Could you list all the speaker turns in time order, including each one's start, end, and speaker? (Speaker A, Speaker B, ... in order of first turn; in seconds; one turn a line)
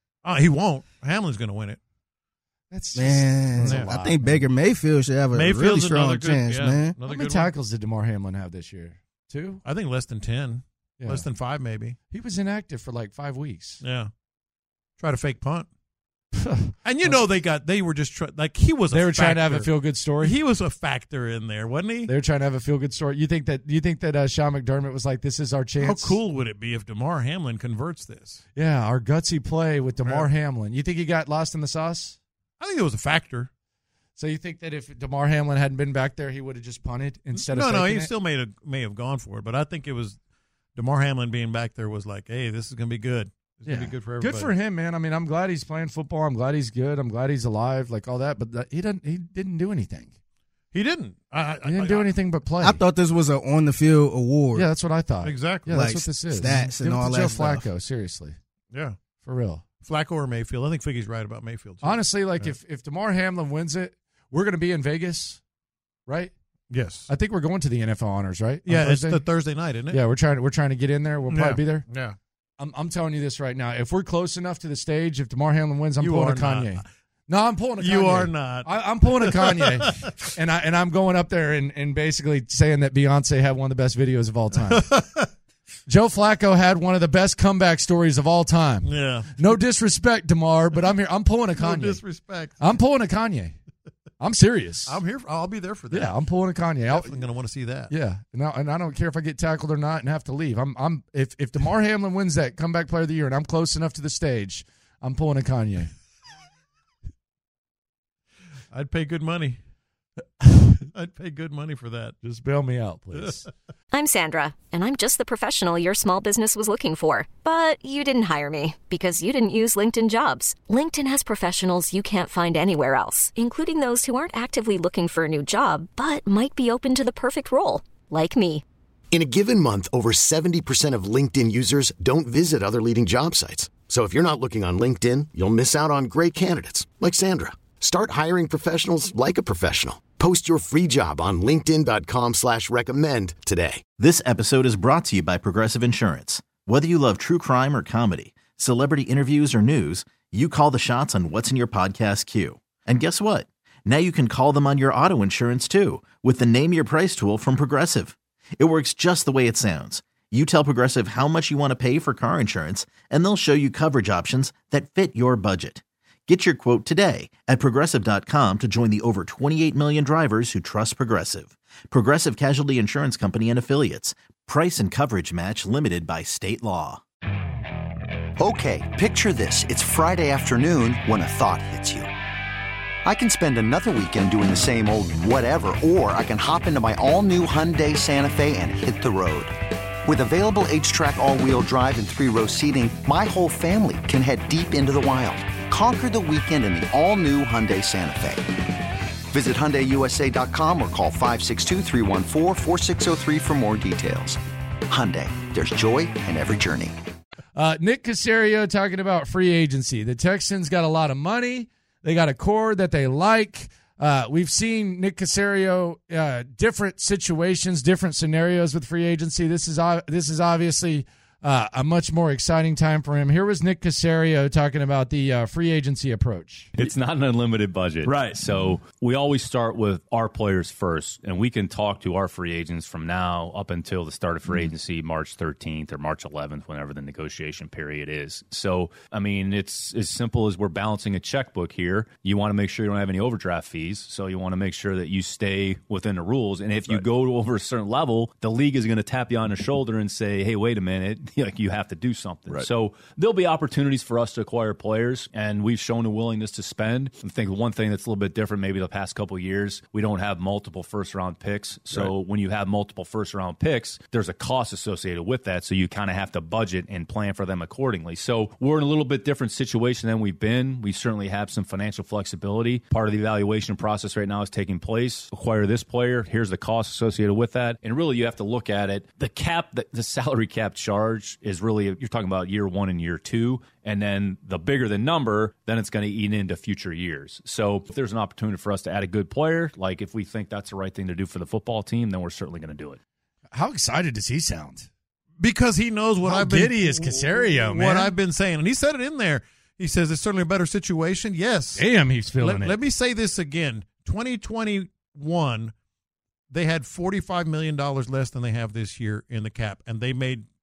Speaker A: 0.2-1.8
Speaker B: 2.7-4.5
Speaker C: 2.9-7.0
Speaker A: 3.6-3.9
Speaker A: 5.3-7.5
Speaker B: 7.0-9.6
Speaker A: 9.6-11.9
Speaker B: 11.0-11.3
Speaker B: 12.1-13.8
Speaker A: 13.8-14.1
Speaker A: 15.0-15.7
Speaker B: 16.4-17.2
Speaker A: 16.8-22.1
Speaker B: 18.9-20.4
Speaker B: 22.0-26.2
Speaker A: 25.8-28.4
Speaker B: 28.6-32.2
Speaker A: 30.0-30.3
Speaker A: 32.6-33.5
Speaker B: 34.2-38.1
Speaker A: 37.3-40.2
Speaker A: 40.8-44.5
Speaker B: 43.6-50.1
Speaker A: 50.7-52.1
Speaker B: 51.6-52.8
Speaker C: 52.6-54.6
Speaker B: 54.5-58.4
Speaker A: 55.2-56.0
Speaker C: 55.7-57.7
Speaker A: 58.7-59.0
Speaker B: 59.2-59.6
Speaker A: 59.8-62.5
Speaker B: 61.8-65.4
Speaker B: 66.1-66.3
Speaker A: 66.7-67.1
Speaker B: 67.1-69.3
Speaker A: 68.6-70.0
Speaker B: 69.9-71.9
Speaker A: 71.3-72.2
Speaker B: 72.6-84.9
Speaker A: 76.0-76.8
Speaker A: 77.8-80.0
Speaker A: 84.5-85.3
Speaker B: 85.9-92.0
Speaker A: 88.8-89.6
Speaker A: 91.5-92.8
Speaker B: 92.6-93.5
Speaker B: 94.2-95.0
Speaker A: 94.8-96.2
Speaker B: 95.9-97.2
Speaker A: 96.9-97.9
Speaker B: 97.9-105.9
Speaker A: 108.7-109.6
Speaker A: 110.8-112.1
Speaker B: 112.2-113.5
Speaker D: 113.9-128.6
Speaker E: 129.1-143.8
Speaker F: 144.0-177.0
Speaker G: 178.4-182.1
Speaker G: 183.0-189.5
Speaker G: 190.1-198.4
Speaker G: 199.3-206.9
Speaker B: 207.5-226.7
Speaker H: 226.8-293.0
Speaker B: 293.5-294.9
Speaker A: 295.4-305.7
Speaker B: 296.2-298.1
Speaker B: 301.8-302.8
Speaker A: 306.5-310.4